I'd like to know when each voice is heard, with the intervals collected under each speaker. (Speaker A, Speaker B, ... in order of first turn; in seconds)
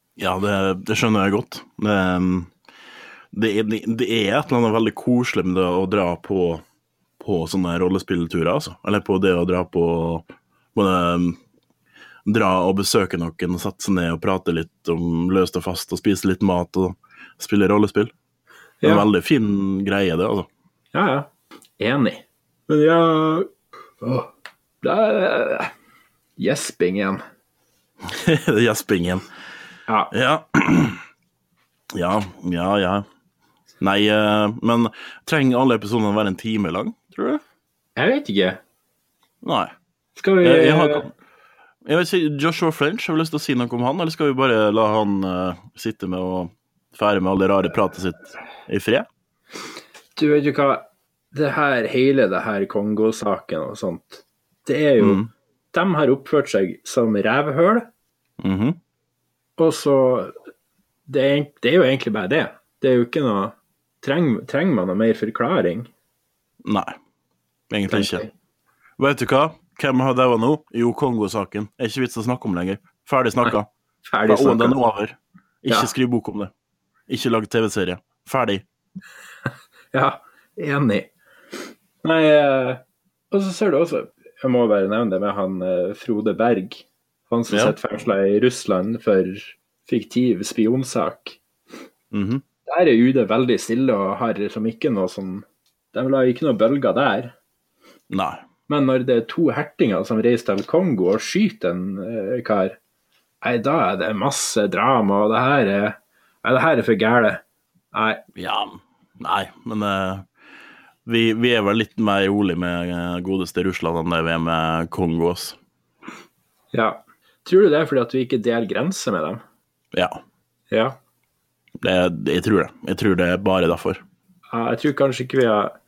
Speaker A: 0.2-2.5, 3.3-6.6, 7.2-11.4, 12.3-18.1, 18.8-20.5, 28.1-29.3, 30.1-31.0, 31.9-33.0, 33.8-37.4, 39.4-39.7, 40.4-41.1, 41.9-49.1, 55.0-55.3, 58.4-58.8, 66.7-67.0, 67.7-68.3, 69.0-73.7, 74.3-76.5, 77.1-78.6, 87.5-87.8, 92.1-92.4, 98.1-98.4, 108.4-110.3, 111.1-115.6, 121.8-124.0
Speaker B: 18.8-19.1, 20.9-23.5, 24.0-24.3, 24.8-25.7, 26.4-27.2, 38.0-38.6, 40.2-41.1, 50.2-55.2, 55.7-57.9, 59.6-60.3, 61.1-65.9, 67.9-68.3, 74.0-74.8, 79.9-81.1, 82.0-91.4, 92.7-97.3, 98.7-102.8, 103.4-107.4, 107.9-108.2, 116.7-119.4, 120.7-121.0, 124.5-125.7